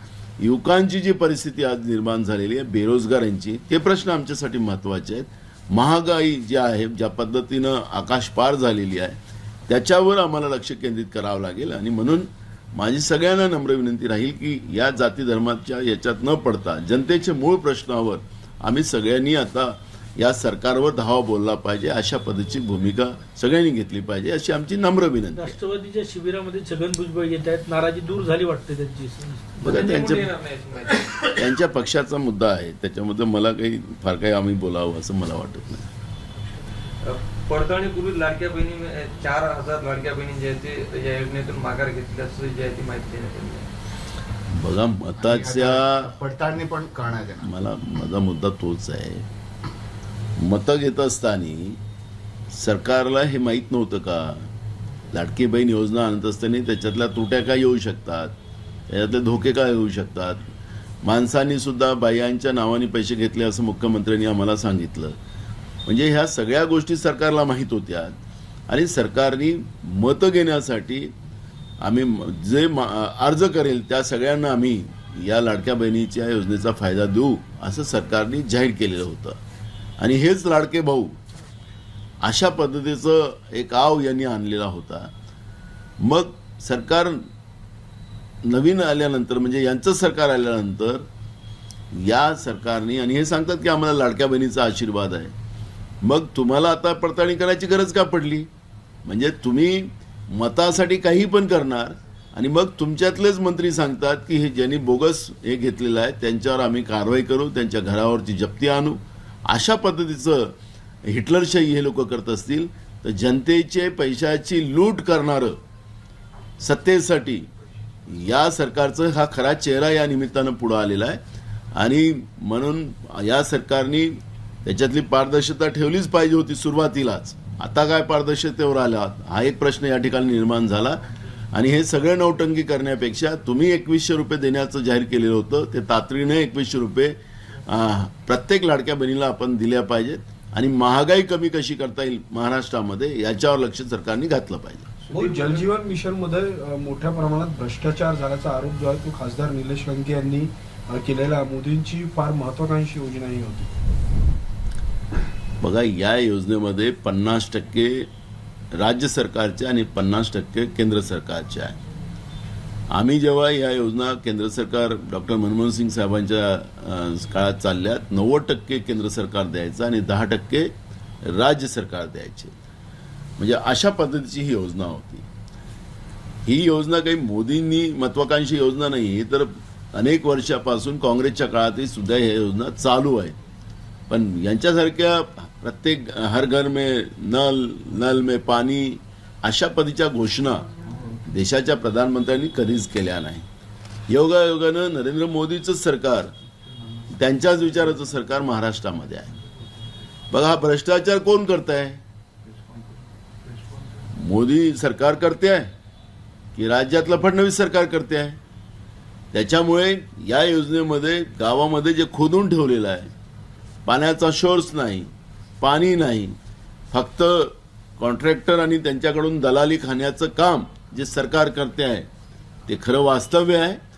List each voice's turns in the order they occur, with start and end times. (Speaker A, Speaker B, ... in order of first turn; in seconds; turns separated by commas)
Speaker A: 0.4-25.6, Speaker B: 25.4-29.9, Speaker A: 29.6-30.3, Speaker C: 29.6-31.3, Speaker A: 31.3-35.9, Speaker C: 37.0-43.7, Speaker A: 44.5-46.1, Speaker D: 45.2-47.5, Speaker A: 47.4-49.2, Speaker A: 50.4-51.8, Speaker A: 52.5-54.5, Speaker A: 55.1-58.3, Speaker A: 58.9-60.4, Speaker A: 61.0-65.2, Speaker A: 65.9-68.2, Speaker A: 68.7-71.1, Speaker A: 71.8-79.4, Speaker A: 80.0-81.2, Speaker A: 82.2-85.1, Speaker A: 86.0-87.2, Speaker A: 88.4-91.1, Speaker A: 91.9-95.3, Speaker A: 96.0-98.5, Speaker A: 99.0-115.6, Speaker A: 116.6-117.5, Speaker A: 118.1-121.2, Speaker A: 121.8-144.9, Speaker C: 145.0-145.7, Speaker E: 145.1-153.7, Speaker A: 155.6-158.1, Speaker A: 158.8-161.8, Speaker A: 162.9-170.7, Speaker A: 171.2-172.5, Speaker A: 173.4-175.2, Speaker A: 176.4-183.4, Speaker A: 184.1-190.7, Speaker A: 191.2-193.5, Speaker A: 194.1-196.3, Speaker A: 197.1-199.3, Speaker A: 200.3-202.0, Speaker A: 204.1-205.7, Speaker A: 206.5-208.4, Speaker A: 209.3-213.1, Speaker A: 213.8-216.3, Speaker A: 216.9-222.1, Speaker A: 222.7-223.8